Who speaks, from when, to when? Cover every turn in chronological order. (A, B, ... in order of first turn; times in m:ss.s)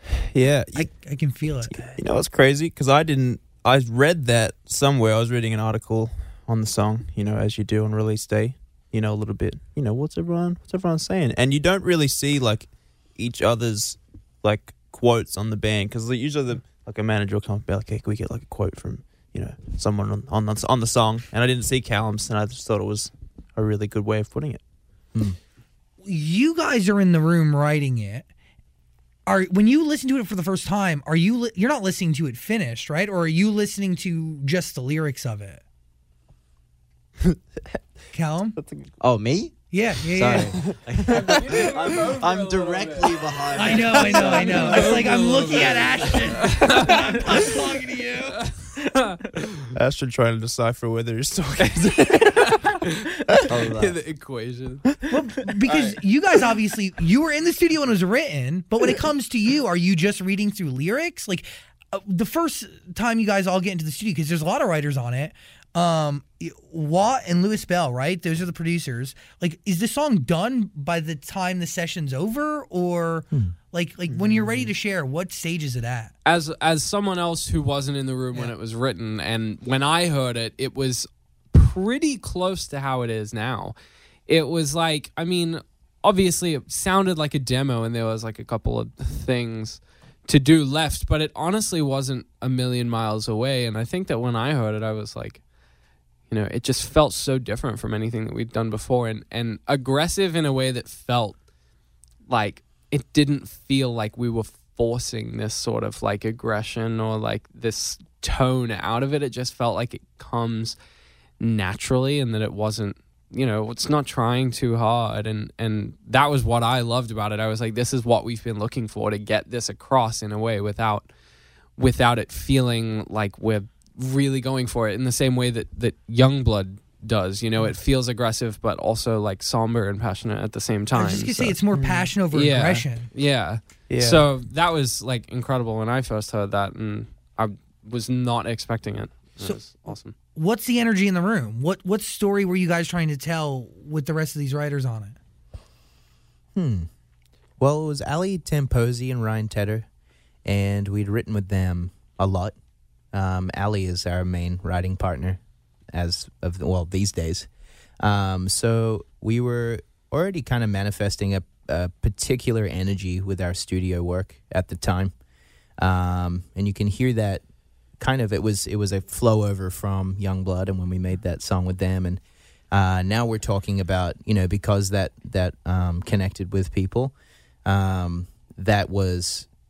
0:00.2-0:00.9 A
0:00.7-0:01.8 B
0:01.7-0:24.6 A
0:26.0-0:28.3 B
0:29.3-0:35.6 B
0:38.1-0:38.6 B
0:38.6-0:38.9 A
0:39.0-0:45.0 C
0:39.7-0:40.7 B
0:41.1-0:47.6 D
0:43.5-0:48.4 B
0:48.3-0:49.6 D
0:49.7-0:52.5 A
0:52.3-0:54.8 D
0:53.5-0:54.0 C
0:55.1-1:16.1 B
1:14.1-1:14.7 A
1:16.2-1:23.7 D
1:24.3-1:35.4 D
1:36.3-1:41.4 D
1:42.3-1:50.8 D
1:51.4-2:01.1 D
2:01.8-2:11.6 D
2:10.9-2:13.1 B
2:11.7-2:12.1 A
2:12.3-2:20.1 D
2:13.9-2:14.2 A
2:20.3-2:25.2 B
2:26.5-2:26.9 E
2:27.6-2:29.8 E
2:30.4-2:32.5 E
2:33.1-2:35.4 E
2:35.9-2:37.5 E
2:38.0-2:45.1 E
2:45.8-2:47.4 E
2:48.0-2:52.2 E
2:52.7-2:57.1 E
2:57.6-2:59.5 E